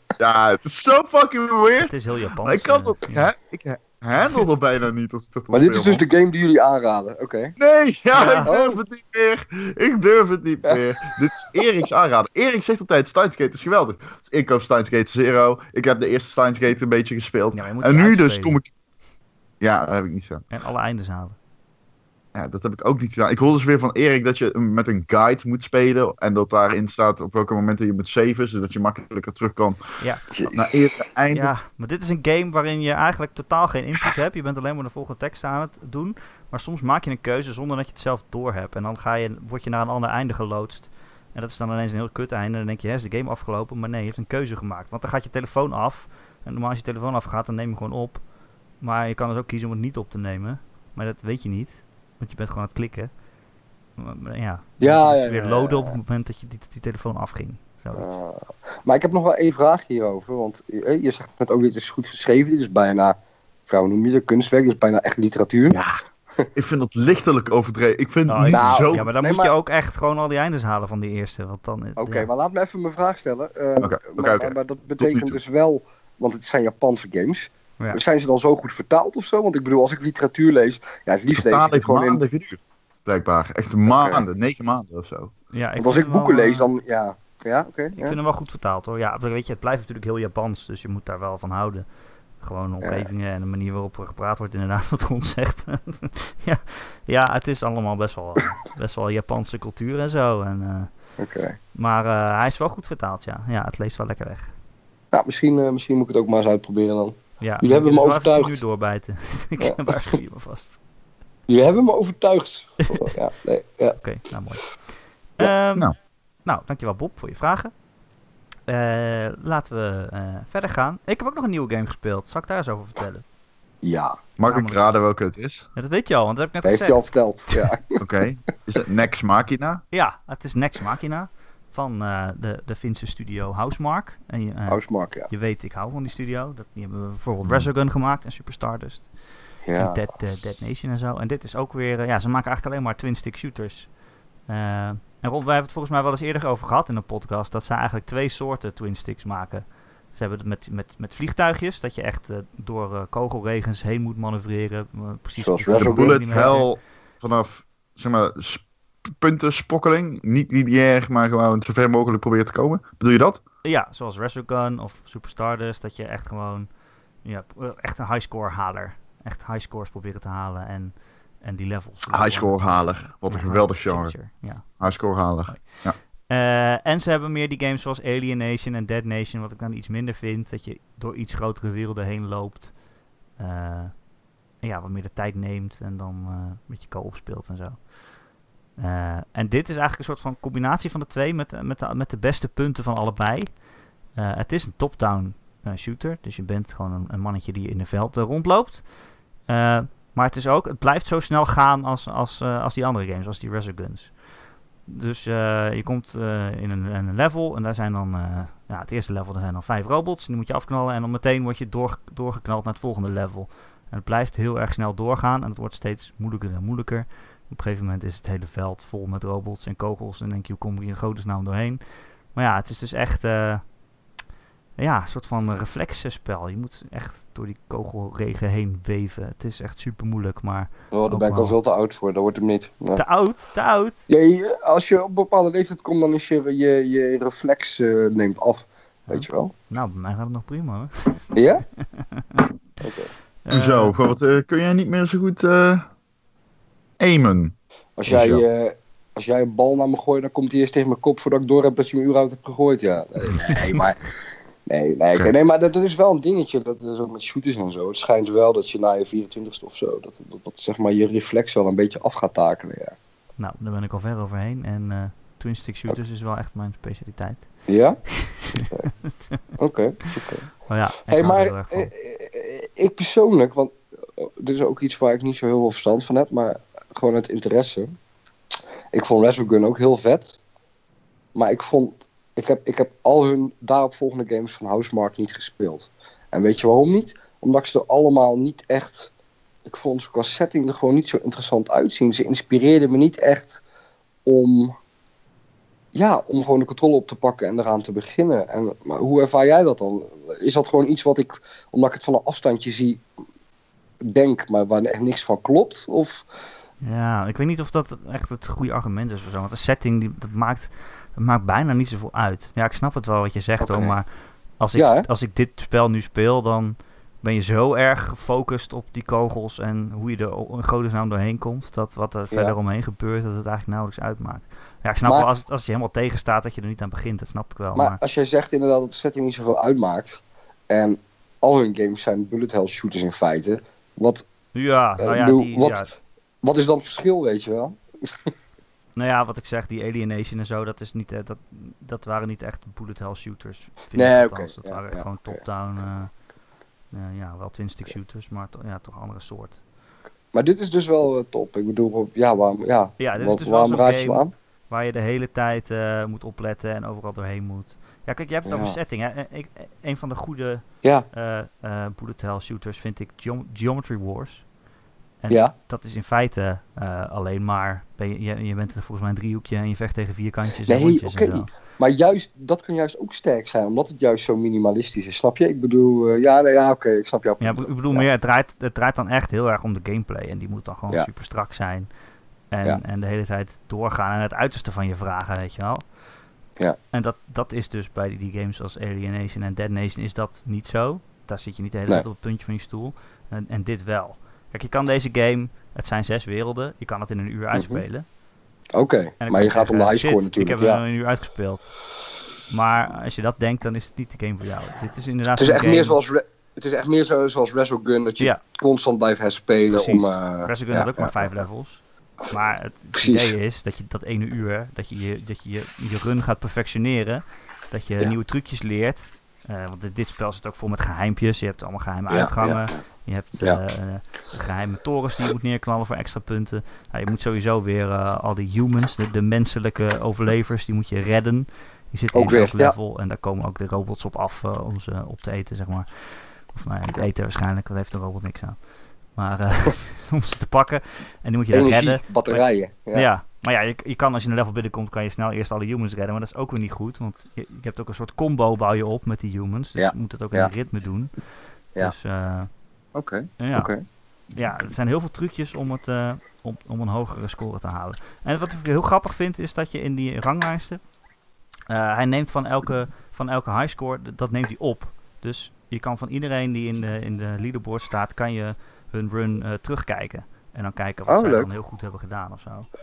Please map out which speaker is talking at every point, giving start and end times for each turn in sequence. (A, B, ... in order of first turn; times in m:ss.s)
0:00.2-0:06.0 A
0:01.8-0:03.3 B
0:04.2-0:04.7 B
0:05.5-0:07.6 C
0:07.6-0:18.7 A
0:08.1-0:08.5 B
0:08.4-0:08.8 C
0:17.5-0:18.6 B
0:19.6-0:20.5 A
0:20.5-0:21.4 B
0:22.3-0:31.6 A
0:30.0-0:30.4 B
0:30.3-0:30.9 C
0:31.3-0:53.2 B
0:54.0-0:58.1 B
0:54.8-0:56.0 C
0:58.0-1:05.8 C
1:05.7-1:06.0 A
1:06.6-1:09.1 A
1:08.3-1:12.3 B
1:08.5-1:09.5 C
1:12.0-1:22.2 C
1:13.8-1:15.4 A
1:21.4-1:25.3 A
1:23.9-1:24.2 C
1:25.5-1:26.7 B
1:25.8-1:28.2 C
1:28.0-1:41.2 B
1:32.8-1:33.1 C
1:41.2-1:41.6 C
1:41.7-1:44.6 B
1:45.1-1:48.6 C
1:47.4-1:50.8 B
1:49.6-1:50.0 C
1:51.5-1:54.0 C
1:54.0-1:57.8 B
1:58.7-2:03.2 B
2:03.8-2:04.2 C
2:04.4-2:05.7 A
2:04.4-2:04.8 B
2:05.8-2:07.7 B
2:06.6-2:08.0 C
2:08.0-2:09.8 A
2:09.9-2:36.8 B
2:14.7-2:15.3 C
2:19.6-2:20.0 C
2:35.4-2:36.6 C
2:35.8-2:43.4 A
2:43.6-3:02.8 B
2:52.1-2:56.0 A
3:03.4-3:04.1 B
3:04.6-3:07.9 B
3:08.8-3:24.2 B
3:24.8-3:43.7 B
3:44.8-3:51.6 B
3:50.9-3:53.0 C
3:53.0-3:54.1 B
3:54.1-3:59.5 C
3:59.1-4:02.4 B
4:01.4-4:01.6 C
4:02.8-4:03.1 C
4:03.4-4:04.0 B
4:03.5-4:05.9 A
4:07.0-4:07.6 A
4:08.0-4:14.1 C
4:08.1-4:08.4 A
4:14.7-4:23.0 C
4:23.4-4:28.7 B
4:27.7-4:28.9 C
4:29.6-4:37.9 C
4:30.7-4:31.9 B
4:38.9-4:40.4 C
4:41.4-4:49.1 C
4:49.7-4:53.6 C
4:54.2-4:54.8 C
4:55.9-5:03.0 C
5:04.0-5:06.2 C
5:06.8-5:28.0 B
5:13.6-5:14.0 C
5:14.7-5:15.1 C
5:22.3-5:22.6 C
5:27.8-5:34.3 C
5:34.5-5:35.9 B
5:35.0-5:35.9 C
5:36.4-5:38.3 C
5:39.0-5:46.1 B
5:44.0-5:45.4 C
5:46.9-5:49.6 B
5:50.3-5:54.3 C
5:53.0-6:04.4 B
5:58.5-5:58.8 C
6:05.2-6:11.5 B
6:10.7-6:18.1 C
6:17.4-6:21.9 B
6:22.5-6:25.9 B
6:26.9-6:38.1 B
6:37.5-6:37.8 C
6:38.8-6:40.8 C
6:39.2-6:41.9 B
6:42.5-6:46.0 B
6:45.4-6:51.3 C
6:49.7-7:31.2 B
6:53.0-6:53.3 C
7:02.1-7:02.8 C
7:12.1-7:12.8 C
7:21.5-7:23.0 C
7:29.8-7:30.5 C
7:31.8-7:32.5 B
7:33.0-7:33.8 C
7:33.4-7:33.7 B
7:34.3-7:40.8 B
7:41.7-7:52.7 B
7:51.1-7:51.5 C